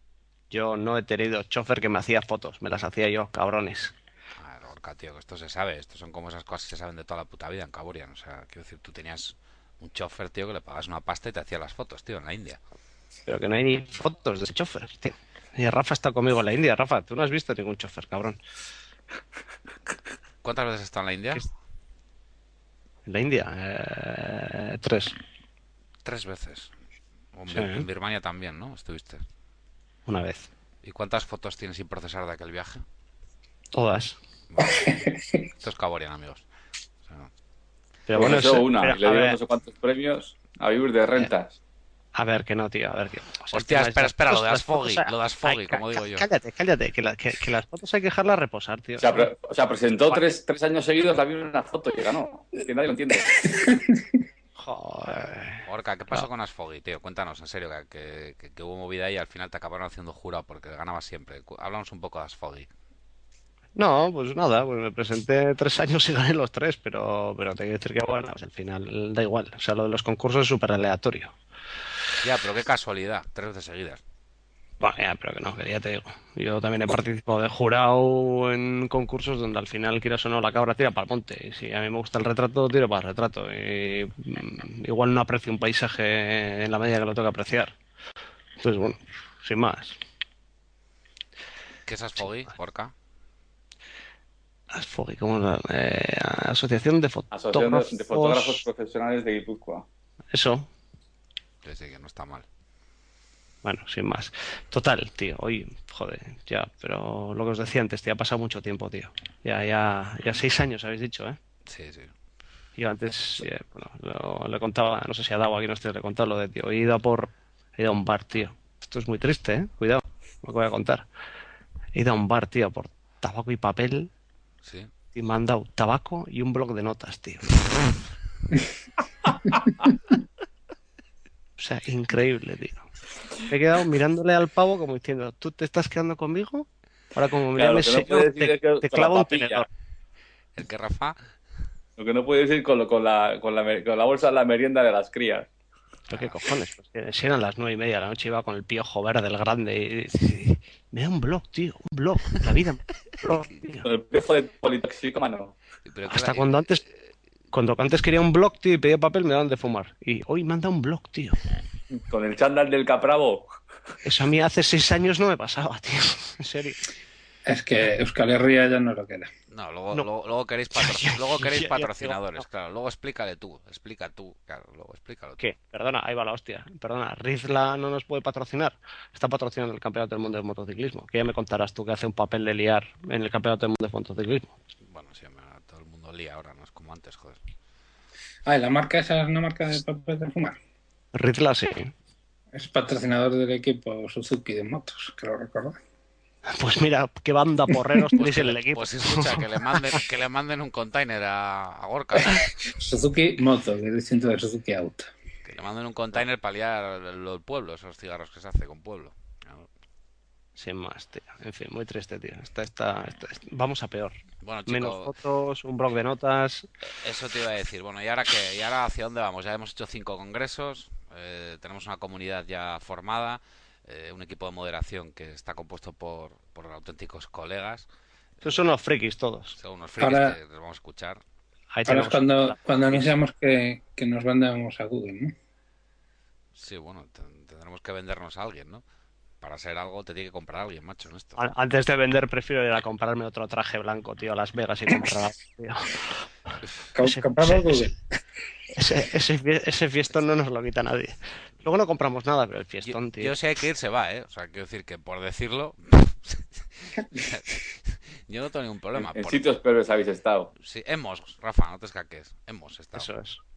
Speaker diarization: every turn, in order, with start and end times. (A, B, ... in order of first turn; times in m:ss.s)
0:00.5-0:03.9 A
0:04.4-0:12.6 B
0:13.3-0:18.4 A
0:20.4-0:21.4 B
0:23.0-0:25.2 A
0:26.0-0:26.7 B
0:27.3-0:29.2 B
0:27.5-0:27.8 A
0:30.1-0:30.5 A
0:30.8-0:32.8 B
0:33.7-0:34.2 A
0:34.5-0:34.9 B
0:34.6-0:35.4 C
0:35.6-0:36.4 B
0:38.1-0:39.4 A
0:38.1-0:41.6 D
0:42.2-0:49.3 A
0:43.5-0:46.2 B
0:49.0-0:53.3 D
0:54.6-0:56.3 A
0:55.6-1:02.7 B
1:03.8-1:11.3 A
1:12.2-1:14.0 B
1:14.8-1:27.7 A
1:28.6-1:30.0 A
1:31.9-1:32.9 B
1:34.7-1:38.6 A
1:37.3-1:39.8 D
1:40.3-1:40.7 A
1:41.6-1:42.4 B
1:43.6-1:51.4 A
1:51.7-1:52.1 B
1:52.8-2:01.0 A
2:01.9-2:04.1 A
2:04.6-2:04.9 B
2:05.1-2:07.9 A
2:11.6-2:12.8 A
2:13.5-2:19.7 A
2:17.6-2:19.6 D
2:20.6-2:21.2 B
2:22.0-2:25.5 D
2:26.1-2:26.4 B
2:26.1-2:33.9 A
2:33.8-2:35.5 D
2:35.8-2:36.9 B
2:36.1-2:36.8 A
2:37.5-2:41.4 A
2:42.0-2:43.5 D
2:44.0-2:46.8 A
2:47.4-2:49.3 C
2:49.5-2:55.4 B
2:50.7-2:52.4 A
2:55.4-3:04.5 A
3:04.8-3:07.4 B
3:08.4-3:10.6 C
3:11.1-3:11.9 A
3:12.5-3:15.8 C
3:16.5-3:20.0 A
3:18.2-3:22.5 B
3:22.6-3:25.1 C
3:25.4-3:29.7 B
3:30.6-3:34.2 A
3:34.4-3:35.1 B
3:34.7-3:36.7 A
3:37.0-3:47.9 B
3:48.4-3:49.6 A
3:49.6-3:51.2 B
3:50.0-3:50.4 C
3:51.7-3:53.0 A
3:51.8-3:55.3 C
3:56.6-3:58.8 B
3:59.4-4:01.4 B
4:01.4-4:06.2 A
4:06.9-4:08.0 C
4:07.0-4:07.9 A
4:08.7-4:13.3 A
4:12.8-4:19.6 B
4:19.0-4:20.5 D
4:20.6-4:23.1 B
4:23.0-4:23.4 A